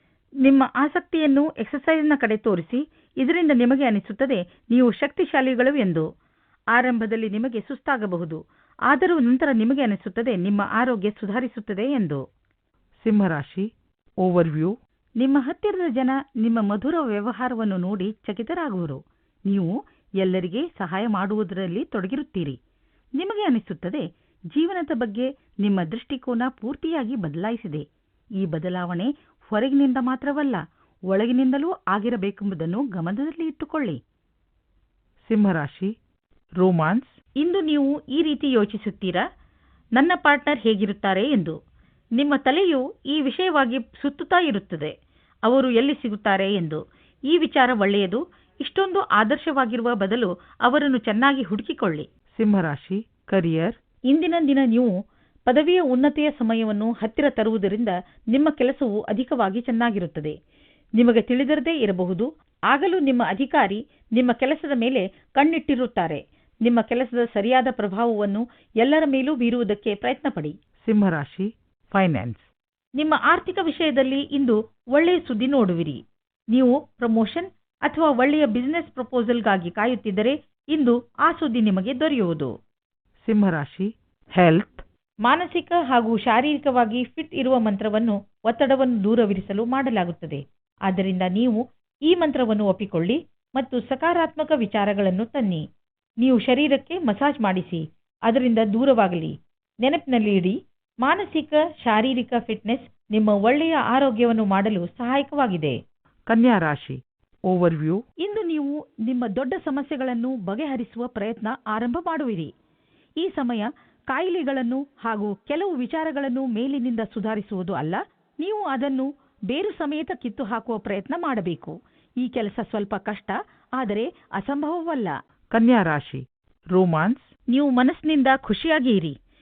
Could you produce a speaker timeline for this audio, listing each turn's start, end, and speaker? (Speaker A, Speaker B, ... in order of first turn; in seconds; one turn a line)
Speaker A: 0.4-6.1
Speaker A: 6.7-12.2
Speaker B: 13.1-13.6
Speaker B: 14.2-14.7
Speaker A: 15.2-22.6
Speaker A: 23.2-27.9
Speaker A: 28.4-34.0
Speaker A: 35.3-35.8
Speaker B: 35.3-35.9
Speaker A: 36.6-39.2
Speaker B: 36.8-37.0
Speaker A: 40.0-41.5
Speaker A: 42.2-44.9
Speaker A: 45.5-52.6
Speaker B: 52.4-53.6
Speaker A: 53.2-54.9
Speaker A: 55.5-60.3
Speaker A: 61.0-72.4
Speaker A: 73.0-76.0
Speaker A: 76.5-82.5
Speaker A: 83.3-83.8
Speaker B: 83.3-83.8
Speaker A: 84.4-95.6
Speaker A: 96.2-105.8
Speaker A: 106.3-107.0
Speaker B: 106.3-107.0
Speaker A: 107.5-112.5
Speaker A: 113.2-126.2
Speaker B: 125.5-126.2
Speaker A: 126.7-129.1